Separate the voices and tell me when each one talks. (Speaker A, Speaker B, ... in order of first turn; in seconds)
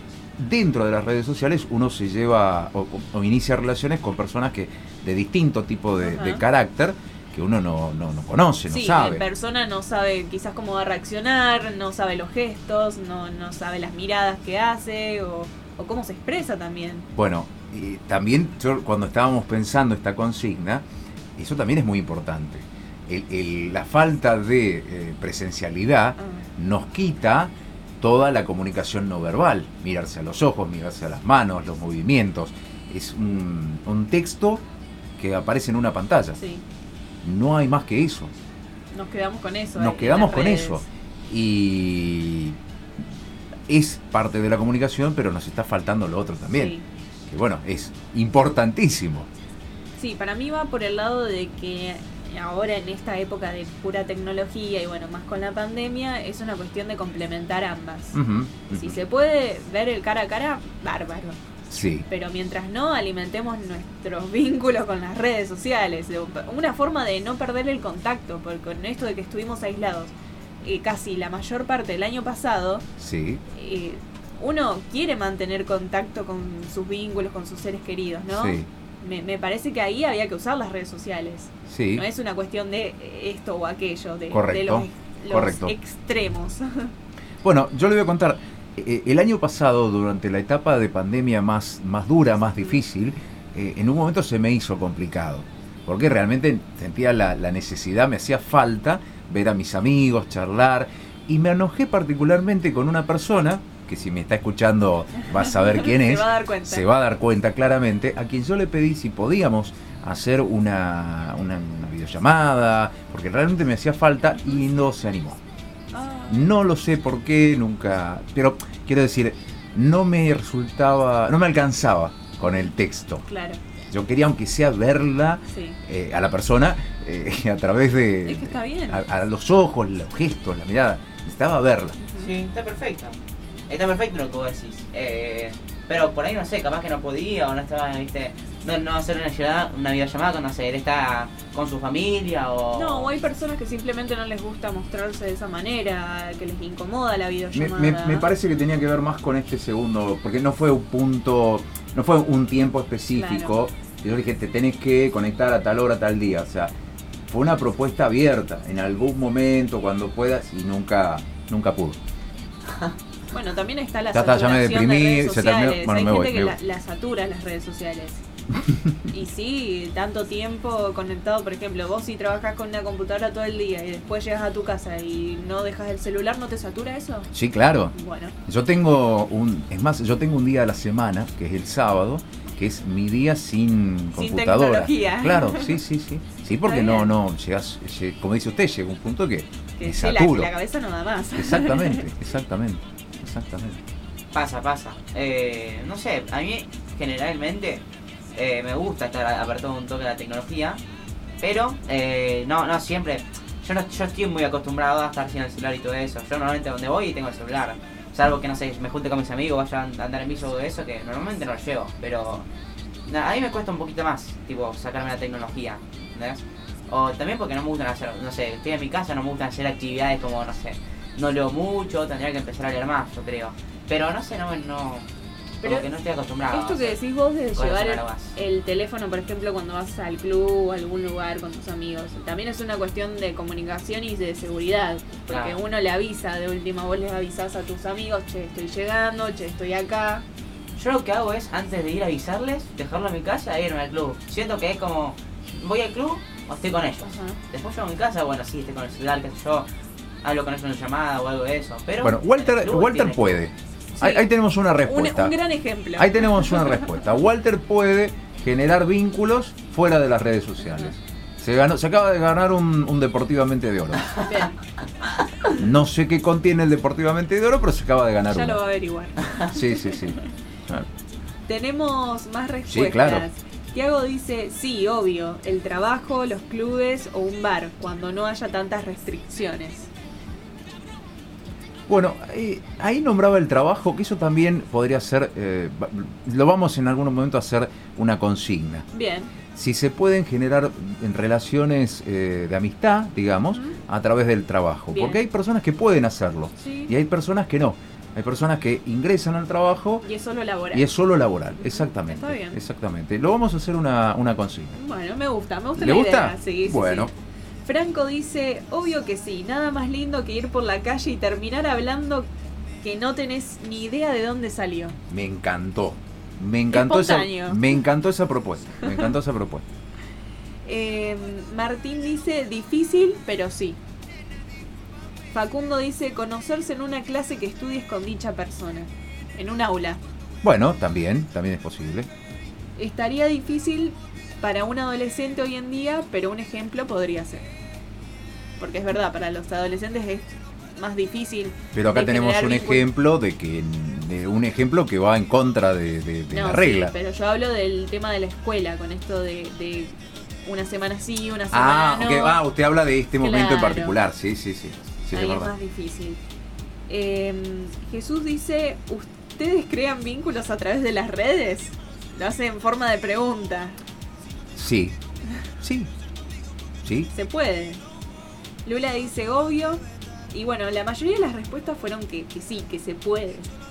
Speaker A: 0.4-9.2, 17.1-20.8, 21.4-34.6, 35.2-36.4, 37.2-38.3, 39.8-42.6, 43.7-46.7, 47.3-49.3, 58.1-59.0, 61.7-62.0, 73.0-73.4, 78.3-78.7, 81.7-82.0, 84.3-85.7, 87.4-115.4, 116.3-123.2, 123.9-132.0, 147.5-156.7, 157.3-162.0, 164.1-166.6, 168.5-169.0, 177.3-177.9, 178.4-190.5, 191.3-193.8, 252.0-255.3, 256.0-264.1, 265.6-268.6, 269.5-270.9, 272.7-273.2, 281.9-288.9, 289.5-300.1, 300.7-304.8, 305.8-307.1, 315.1-319.6, 330.4-332.1, 341.7-346.9, 351.5-355.5, 364.5-365.0, 365.6-365.9, 366.8-367.1
Speaker B: 6.0-6.4, 8.7-17.1, 26.2-26.4, 36.4-36.6, 38.9-40.8, 46.5-46.8, 50.0-61.4, 62.1-72.8, 73.5-86.9, 105.3-106.8, 115.9-116.5, 122.4-122.7, 123.3-123.6, 125.5-125.8, 128.2-129.0, 132.0-132.3, 142.7-148.3, 153.1-153.5, 163.3-168.2, 169.1-177.3, 177.9-178.3, 184.1-185.8, 186.6-187.1, 189.8-192.1, 226.5-240.2, 247.0-247.4, 254.0-254.2, 254.8-256.8, 264.2-264.6, 268.3-270.1, 271.5-279.9, 288.9-289.3, 293.5-293.8, 294.9-295.2, 296.6-296.9, 300.0-300.9, 301.6-302.6, 304.7-307.1, 307.6-312.3, 312.8-315.0, 316.7-317.6, 320.6-323.8, 325.3-330.0, 332.8-337.5, 338.6-342.9, 346.3-352.4, 353.2-353.9, 355.1-356.2, 356.9-363.8, 367.1-367.8, 368.6-373.5
Speaker C: 132.2-133.2, 133.7-143.1, 194.3-197.8, 198.3-200.8, 201.4-212.5, 213.0-225.1, 225.6-227.0, 227.5-228.4, 235.3-235.6, 240.8-249.7, 250.2-253.4